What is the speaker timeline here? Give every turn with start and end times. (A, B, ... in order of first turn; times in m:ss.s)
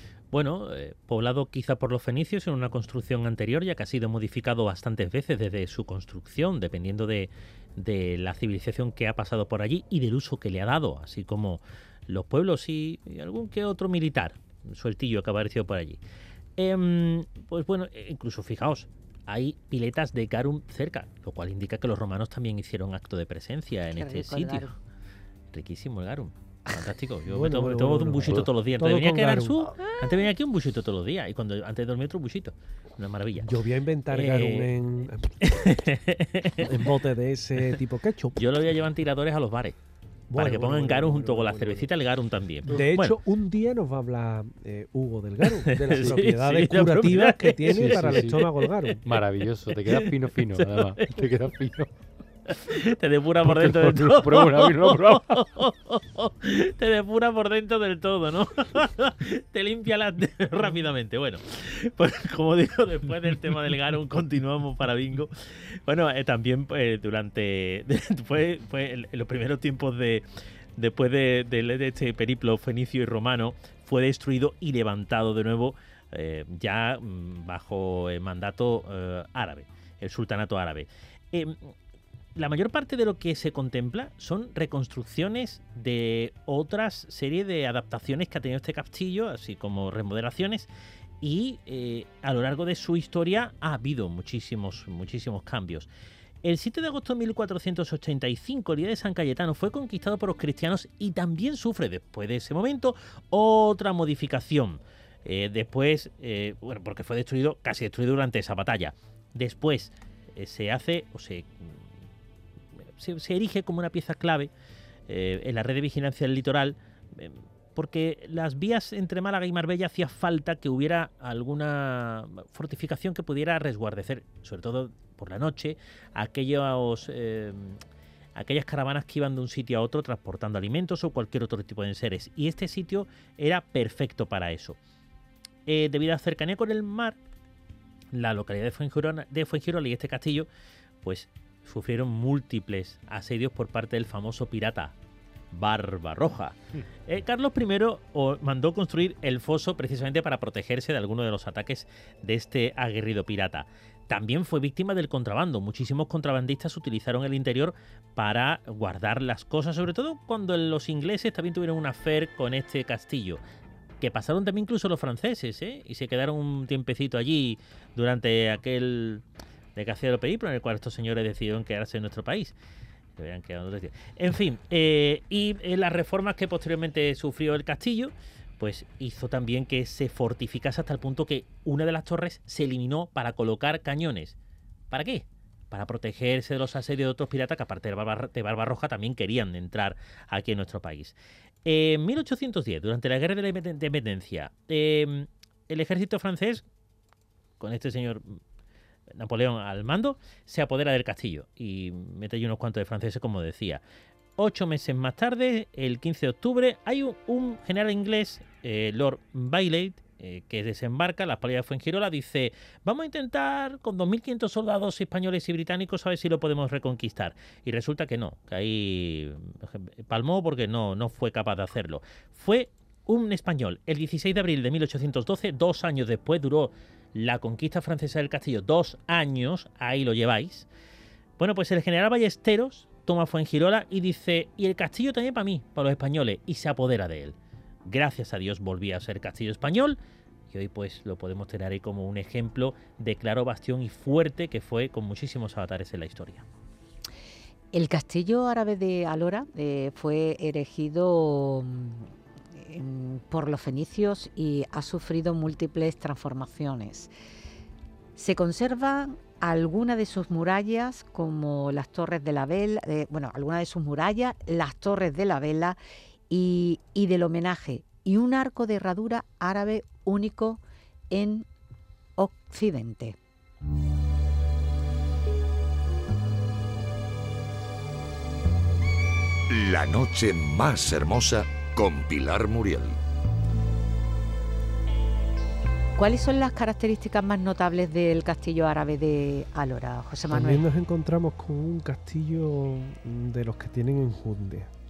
0:00.3-0:16.0 A
0:16.6-0:24.7 A
0:23.9-0:24.8 B
0:25.5-0:33.5 A
0:27.3-0:29.7 C
0:33.4-0:35.5 C
0:34.1-0:34.7 A
0:35.4-0:36.8 A
0:36.6-0:38.4 C
0:38.4-0:39.8 A
0:40.3-0:41.9 C
0:40.3-0:43.2 A
0:42.7-0:49.0 C
0:45.4-0:49.0 A
0:46.0-0:46.2 D
0:47.7-0:48.4 D
0:49.0-0:51.9 D
0:49.7-0:51.2 A
0:52.5-1:10.2 A
0:53.4-0:55.4 D
1:10.8-1:21.6 A
1:22.4-1:30.7 A
1:31.2-1:35.9 A
1:36.4-1:51.8 A
1:53.0-1:54.5 A
1:55.1-2:07.8 A
2:08.4-2:14.8 A
2:15.7-2:17.2 A
2:18.1-2:20.5 A
2:21.0-2:25.0 A
2:25.5-2:43.4 A
2:44.0-2:49.2 A
2:49.8-2:52.6 A
2:53.2-3:04.4 A
3:04.9-3:16.6 A
3:17.6-3:18.4 A
3:19.1-3:23.8 A
3:24.4-3:50.7 A
3:51.4-4:00.0 A
4:00.5-4:06.4 A
4:07.7-4:17.1 B
4:18.2-4:25.8 B
4:26.3-4:31.5 B
4:32.2-4:33.2 B
4:39.5-4:43.0 E
4:46.0-4:50.6 B
4:50.3-4:54.7 C